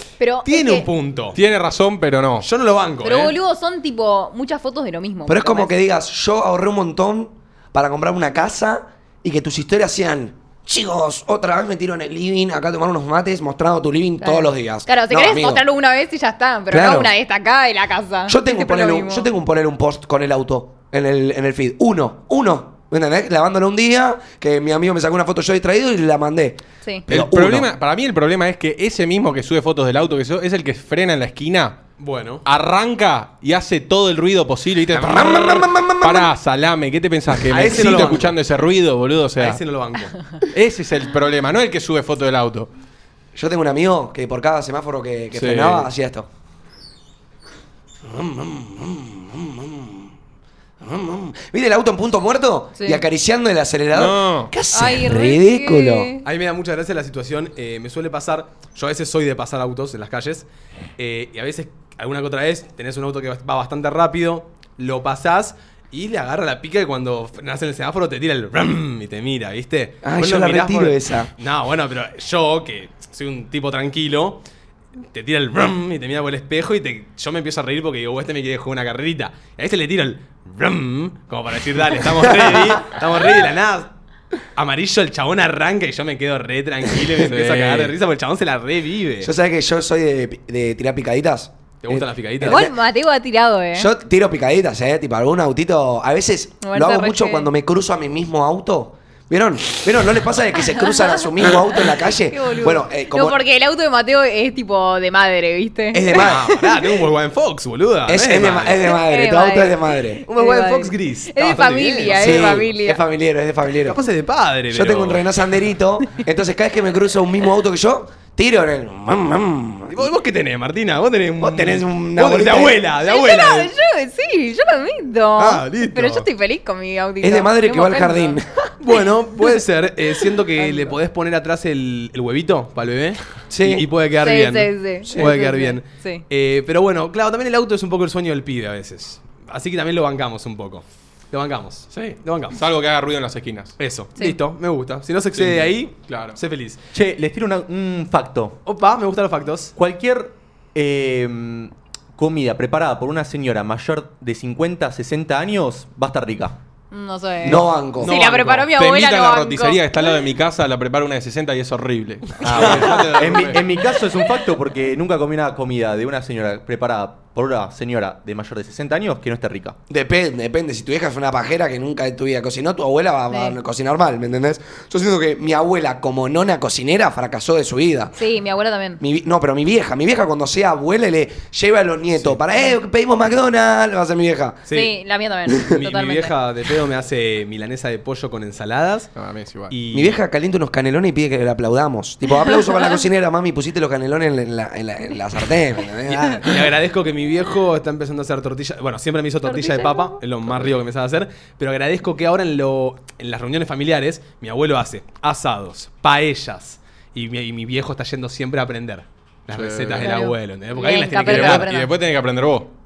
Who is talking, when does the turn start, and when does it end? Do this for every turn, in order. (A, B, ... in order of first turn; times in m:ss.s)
0:00.2-0:00.9 A
0:00.4-0:01.4 B
0:01.3-0:02.5 C
0:02.4-0:03.4 B
0:03.0-0:05.7 A
0:05.3-0:15.6 D
0:14.2-0:19.3 A
0:16.7-0:17.1 D
0:18.3-0:27.7 D
0:27.1-0:31.8 C
0:32.0-0:32.4 B
0:32.4-0:39.6 C
0:34.9-0:36.3 D
0:37.5-0:38.4 B
0:39.4-0:40.2 B
0:40.5-0:42.7 C
0:43.4-0:46.3 D
0:45.3-0:45.9 C
0:48.0-0:50.1 D
0:50.8-0:56.1 D
0:52.8-0:53.0 A
0:53.9-0:54.5 C
0:54.7-0:56.2 A
0:56.2-1:00.5 B
1:01.0-1:14.4 B
1:10.0-1:11.3 D
1:15.0-1:23.9 B
1:22.4-1:22.8 D
1:24.6-1:29.3 B
1:27.2-1:27.9 C
1:29.2-1:32.8 D
1:31.8-1:32.6 B
1:32.4-1:33.9 A
1:33.8-1:43.4 D
1:36.6-1:37.5 A
1:42.3-1:46.2 A
1:45.9-1:46.6 D
1:46.1-1:48.8 B
1:48.1-1:50.2 D
1:48.9-1:53.0 A
1:50.3-1:52.6 B
1:52.1-1:54.0 D
1:53.8-1:55.3 B
1:54.7-2:00.1 D
1:59.9-2:03.7 B
2:01.4-2:02.8 D
2:03.0-2:08.4 A
2:05.4-2:06.3 B
2:07.2-2:08.7 D
2:08.8-2:22.6 B
2:10.6-2:11.0 A
2:13.5-2:13.9 D
2:14.2-2:16.2 A
2:21.9-2:23.7 C
2:23.8-2:26.8 B
2:25.4-2:26.4 C
2:26.9-2:28.6 E
2:28.6-2:29.7 B
2:29.8-2:36.6 E
2:36.9-2:40.1 A
2:37.4-2:38.1 D
2:37.5-2:38.7 B
2:38.7-2:43.7 C
2:42.4-2:49.8 E
2:42.5-2:43.5 B
2:42.6-2:42.9 D
2:49.9-2:58.1 D
2:53.3-2:53.6 A
2:58.2-2:59.0 A
2:59.0-3:04.6 D
3:04.7-3:04.9 B
3:04.7-3:06.3 A
3:05.7-3:09.1 B
3:09.2-3:09.7 C
3:09.7-3:10.2 B
3:09.9-3:16.6 D
3:16.4-3:31.7 B
3:19.5-3:20.1 A
3:29.5-3:30.2 C
3:30.0-3:32.0 A
3:31.2-3:32.7 C